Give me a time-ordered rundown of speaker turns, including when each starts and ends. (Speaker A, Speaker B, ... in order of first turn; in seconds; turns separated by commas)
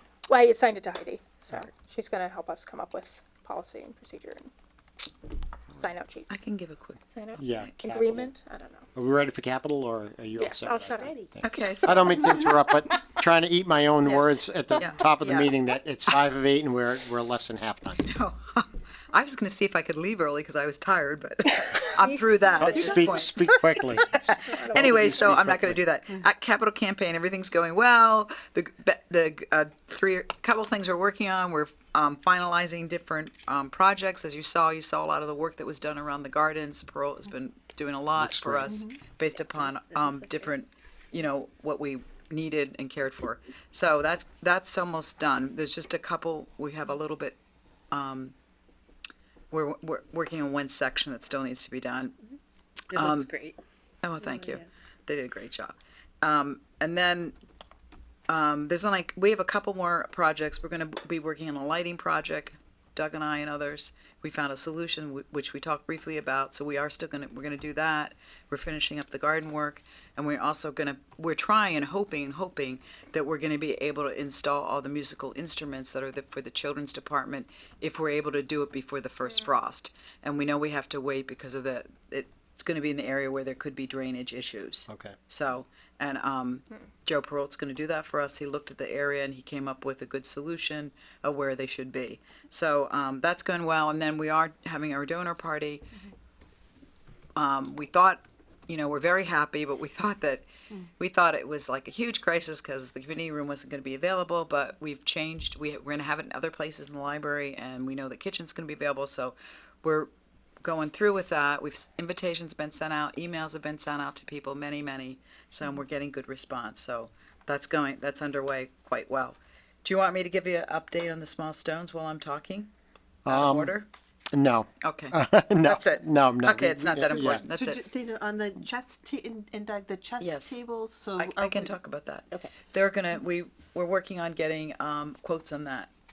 Speaker A: 0.3-4.5, Speaker A: 5.7-6.3, Speaker B: 6.3-7.0, Speaker A: 7.1-8.9, Speaker C: 7.4-8.3, Speaker C: 8.9-18.1, Speaker A: 10.4-11.3, Speaker B: 11.4-12.4, Speaker A: 11.8-13.1, Speaker B: 14.0-15.5, Speaker B: 18.0-47.4, Speaker A: 21.7-25.4, Speaker C: 22.6-25.8, Speaker C: 38.2-38.7, Speaker D: 38.6-40.5, Speaker B: 47.9-48.3, Speaker B: 49.5-52.2, Speaker D: 52.9-53.6, Speaker B: 52.9-53.3, Speaker B: 54.0-57.4, Speaker D: 54.2-54.6, Speaker B: 58.3-95.9, Speaker C: 84.9-85.2, Speaker B: 97.3-110.1, Speaker B: 110.6-122.7, Speaker C: 123.2-123.8, Speaker B: 123.2-123.9, Speaker C: 124.3-127.4, Speaker B: 124.8-127.8, Speaker D: 127.3-131.8, Speaker B: 130.2-135.9, Speaker D: 132.3-132.6